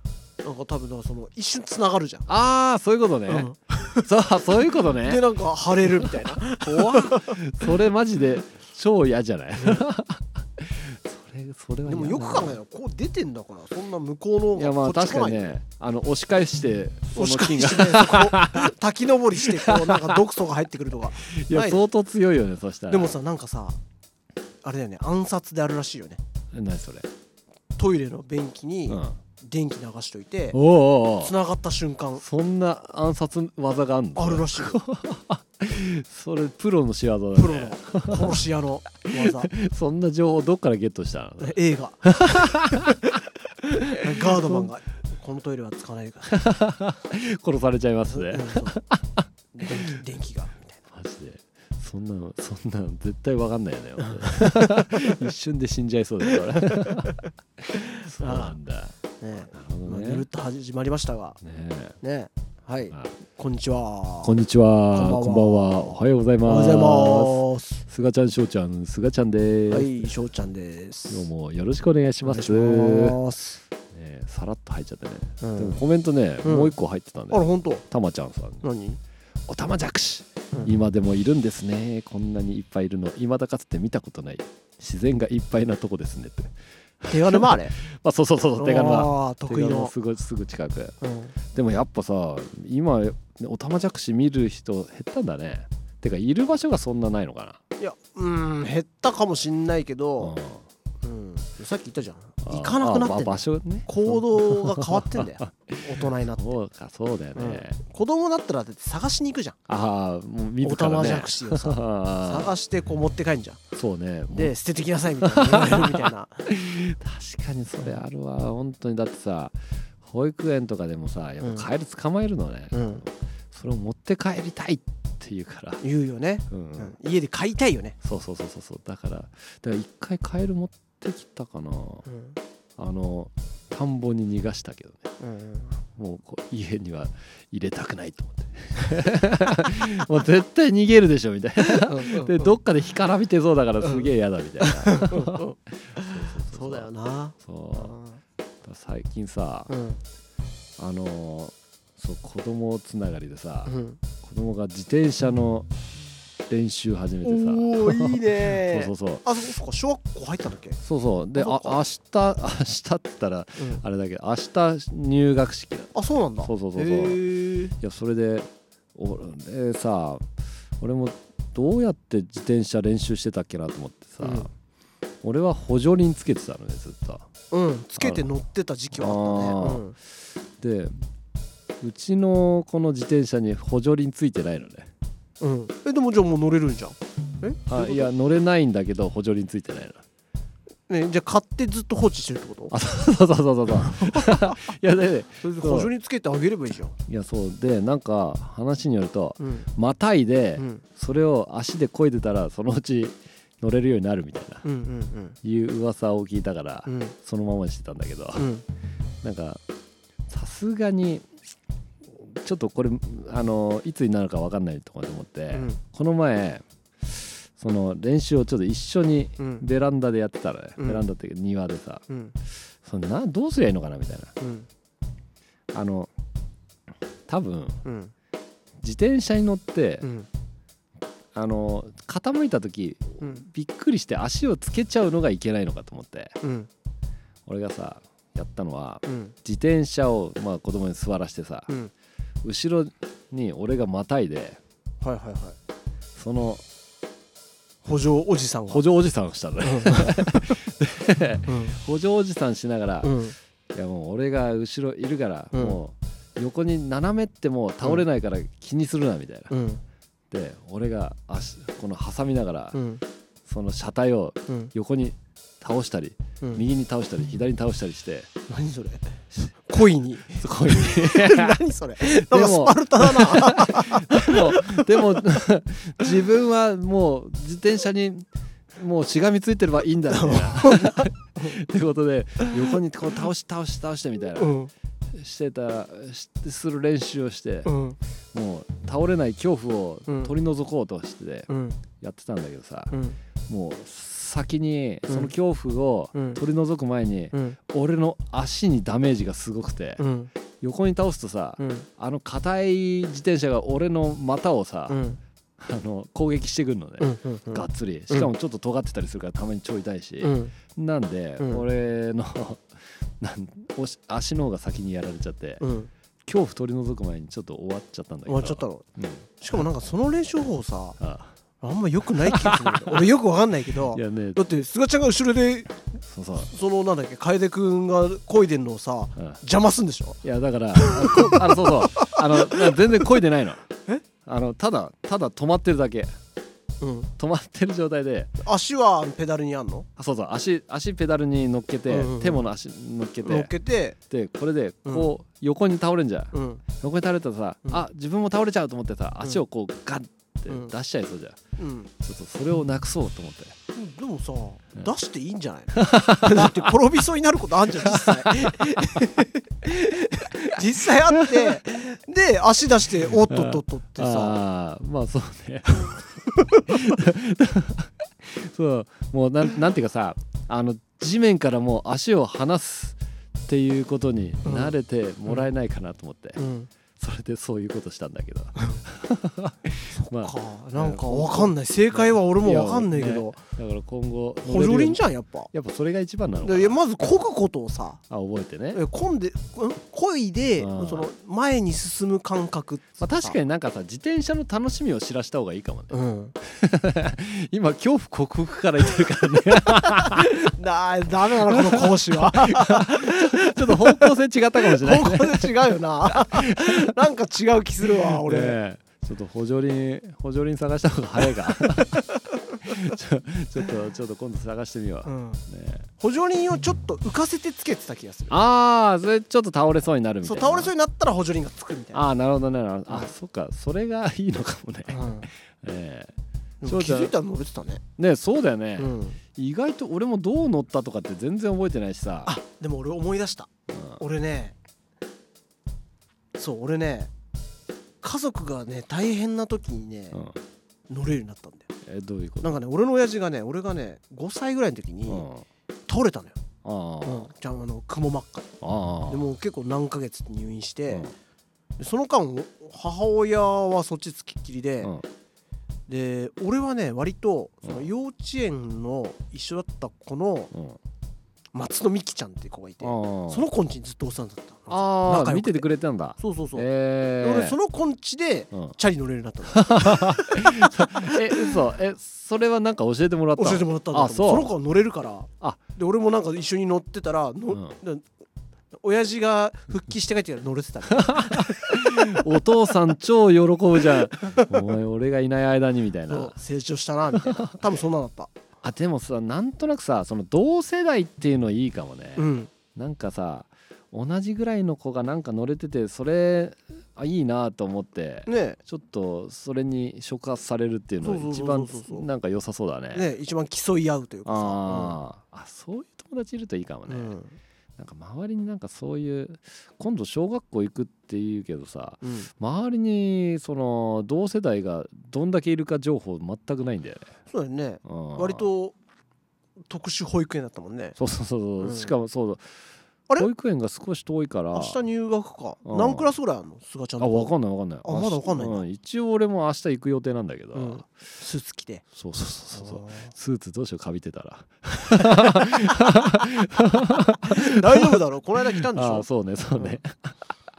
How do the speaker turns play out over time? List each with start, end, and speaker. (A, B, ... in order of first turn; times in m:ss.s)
0:00.4-0:02.3 A
0:02.3-0:05.2 B
0:03.3-0:04.1 A
0:05.0-0:07.7 A
0:06.0-0:12.6 B
0:09.6-0:09.9 A
0:11.8-0:15.6 A
0:14.5-0:18.7 B
0:17.1-0:21.9 A
0:19.4-0:20.2 B
0:21.2-0:23.1 B
0:22.9-0:23.8 A
0:24.6-0:26.2 A
0:26.5-0:27.1 B
0:27.8-0:30.6 A
0:28.9-0:29.2 B
0:30.5-0:31.3 B
0:31.2-0:32.2 A
0:32.2-0:38.4 B
0:34.2-0:34.8 A
0:37.3-0:39.5 A
0:39.1-0:44.7 B
0:41.4-0:43.0 A
0:43.7-0:46.4 A
0:46.3-0:50.0 B
0:48.1-0:48.8 A
0:49.5-0:50.8 A
0:50.9-1:00.2 B
0:54.0-0:55.1 A
0:56.3-0:57.2 A
0:57.7-0:58.6 A
0:59.2-1:01.4 A
1:01.4-1:02.0 B
1:02.0-1:04.3 A
1:04.2-1:10.1 B
1:04.9-1:07.8 A
1:09.7-1:11.3 A
1:11.1-1:13.2 B
1:12.2-1:13.6 A
1:13.9-1:18.6 B
1:15.4-1:15.8 A
1:16.4-1:16.7 A
1:17.3-1:17.8 A
1:18.6-1:19.0 A
1:19.5-1:30.9 B
1:27.0-1:27.8 A
1:28.6-1:29.9 A
1:31.0-1:31.3 A
1:31.5-1:37.6 B
1:37.8-1:40.4 A
1:40.2-1:40.6 B
1:41.0-1:46.5 A
1:42.4-1:47.8 B
1:47.3-1:49.6 A
1:49.7-1:52.5 B
1:50.6-1:53.6 A
1:53.7-1:54.5 B
1:54.3-1:56.5 A
1:55.2-2:05.8 B
2:01.4-2:01.7 A
2:02.7-2:03.0 A
2:05.8-2:08.0 A
2:06.5-2:07.0 B
2:08.0-2:12.0 B
2:12.0-2:12.4 A
2:12.8-2:15.0 B
2:15.2-2:15.8 A
2:16.0-2:26.9 B
2:21.6-2:22.6 A
2:24.6-2:28.2 A
2:27.4-2:27.9 B
2:28.6-2:29.7 B
2:29.7-2:30.0 A
2:30.8-2:35.7 B
2:33.6-2:34.0 A
2:36.5-2:39.2 B
2:37.2-2:40.8 A
2:40.8-2:47.2 B
2:41.4-2:41.8 A
2:43.6-2:43.8 A
2:45.9-2:47.7 A
2:47.8-2:50.2 B
2:50.8-2:54.5 B
2:54.2-2:54.5 A
2:55.2-2:57.2 B
2:57.5-3:00.0 A
2:58.0-2:58.3 B
2:58.9-2:59.8 B
3:00.6-3:01.0 B
3:01.8-3:04.9 B
3:05.4-3:08.1 A
3:07.7-3:10.0 B
3:10.9-3:12.8 A
3:12.7-3:15.9 B
3:13.8-3:14.7 A
3:15.4-3:16.9 A
3:17.0-3:24.6 B
3:19.4-3:19.7 A
3:20.6-3:20.8 A
3:24.6-3:25.4 A
3:25.4-3:28.4 B
3:26.8-3:27.1 A
3:28.4-3:28.6 A
3:29.2-3:29.6 B
3:30.3-3:31.3 B
3:32.1-3:42.0 B
3:35.5-3:35.8 A
3:39.4-3:39.6 A
3:40.8-3:41.0 A
3:42.1-3:42.3 A
3:42.8-3:44.3 B
3:44.4-3:44.7 A
3:45.7-3:46.1 B
3:47.3-3:47.8 B
3:47.8-3:48.1 A
3:48.8-3:50.1 B
3:50.0-3:50.3 A
3:51.3-3:56.4 B
3:53.2-3:53.4 A
3:56.4-3:56.7 A
3:57.4-4:01.7 B
3:59.0-3:59.3 A
4:02.4-4:04.6 B
4:05.0-4:05.6 A
4:06.2-4:06.6 B
4:07.8-4:08.8 A
4:08.7-4:13.2 B
4:09.6-4:10.5 A
4:11.5-4:11.8 A
4:13.0-4:13.3 A
4:13.7-4:19.5 B
4:15.5-4:15.8 A
4:19.5-4:19.8 A
4:20.3-4:22.8 B
4:22.7-4:23.0 A
4:23.4-4:28.3 B
4:28.5-4:35.2 A
4:30.4-4:44.6 B
4:40.1-4:41.5 A
4:42.4-4:42.8 A
4:44.3-4:44.7 A
4:45.1-4:47.7 B
4:47.6-4:48.0 A
4:48.3-4:52.9 B
4:50.1-4:50.3 A
4:51.5-4:51.8 A
4:52.9-4:53.2 A
4:53.5-5:00.0 B
4:56.1-4:56.4 A
4:57.3-4:57.6 A
5:00.0-5:00.3 A
5:00.6-5:05.0 B
5:01.6-5:01.9 A
5:04.9-5:05.2 A
5:05.6-5:15.6 B
5:07.0-5:08.3 A
5:10.2-5:10.5 A
5:15.6-5:15.9 A
5:16.2-5:19.3 B
5:18.3-5:18.8 A
5:19.4-5:21.0 A
5:21.0-5:21.3 B
5:21.6-5:25.8 A
5:22.2-5:23.0 B
5:23.9-5:24.4 B
5:26.1-5:26.5 B
5:26.4-5:30.2 A
5:30.2-5:33.6 B
5:30.7-5:33.0 A
5:34.2-5:36.1 B
5:36.8-5:37.1 A
5:37.2-5:38.3 B
5:38.4-5:39.8 A
5:40.0-5:43.5 B
5:41.9-5:42.4 A
5:43.2-5:44.0 A
5:44.1-5:51.4 B
5:44.8-5:45.1 A
5:46.3-5:46.6 A
5:51.6-5:51.9 A
5:52.0-5:53.5 B
5:53.7-6:04.4 A
5:55.7-5:56.7 B
5:57.8-5:59.1 B
6:00.6-6:01.6 B
6:03.1-6:16.4 B
6:05.9-6:06.7 A
6:14.4-6:14.7 A
6:16.4-6:16.7 A
6:17.0-6:26.8 B
6:18.6-6:18.8 A
6:19.9-6:23.4 A
6:24.4-6:25.5 A
6:26.4-6:28.0 A
6:28.1-6:28.8 B
6:28.7-6:33.4 A
6:30.6-6:31.1 B
6:33.0-6:40.4 B
6:35.9-6:36.3 A
6:40.0-6:48.6 A
6:41.5-6:46.9 B
6:48.0-6:52.0 B
6:51.6-6:52.7 A
6:52.6-6:55.9 B
6:55.0-6:55.4 A
6:56.0-6:58.4 A
6:58.3-7:00.7 B
7:00.2-7:02.0 A
7:01.9-7:06.1 B
7:04.9-7:05.3 A
7:06.6-7:07.8 A
7:06.6-7:07.1 B
7:08.0-7:12.3 B
7:08.8-7:09.2 A
7:12.2-7:14.5 A
7:13.7-7:14.0 B
7:16.3-7:17.1 A
7:18.0-7:20.2 A
7:20.9-7:21.7 A
7:21.8-7:22.5 B
7:22.4-7:25.3 A
7:25.1-7:25.4 B
7:25.9-7:26.4 A
7:26.6-7:27.3 B
7:27.0-7:28.5 A
7:28.6-7:29.3 B
7:29.1-7:31.1 A
7:31.8-7:34.9 A
7:35.9-7:40.5 A
7:40.5-7:40.8 B
7:41.5-7:45.6 A
7:42.8-7:43.4 B
7:44.7-7:47.6 B
7:46.2-7:46.7 A
7:47.2-7:51.6 A
7:49.5-7:54.5 B
7:53.4-7:58.0 A
7:58.7-8:02.3 A
8:01.0-8:06.4 B
8:04.2-8:04.5 A
8:06.1-8:08.3 A
8:08.6-8:23.1 B
8:12.2-8:12.5 A
8:18.2-8:18.6 A
8:21.0-8:22.1 A
8:22.9-8:25.0 A
8:24.2-8:27.1 B
8:26.9-8:27.4 A
8:27.8-8:37.1 B
8:32.0-8:32.3 A
8:37.3-8:38.7 A
8:37.8-8:38.4 B
8:39.7-8:41.0 A
8:41.0-8:42.4 B
8:41.6-8:41.9 A
8:43.2-8:44.8 B
8:44.5-8:47.3 A
8:45.6-8:46.1 B
8:47.0-8:50.9 B
8:47.8-8:48.6 A
8:50.5-8:51.8 A
8:51.9-8:58.0 B
8:52.5-8:53.1 A
8:55.0-8:55.9 A
8:57.2-8:59.8 A
8:58.6-9:00.2 B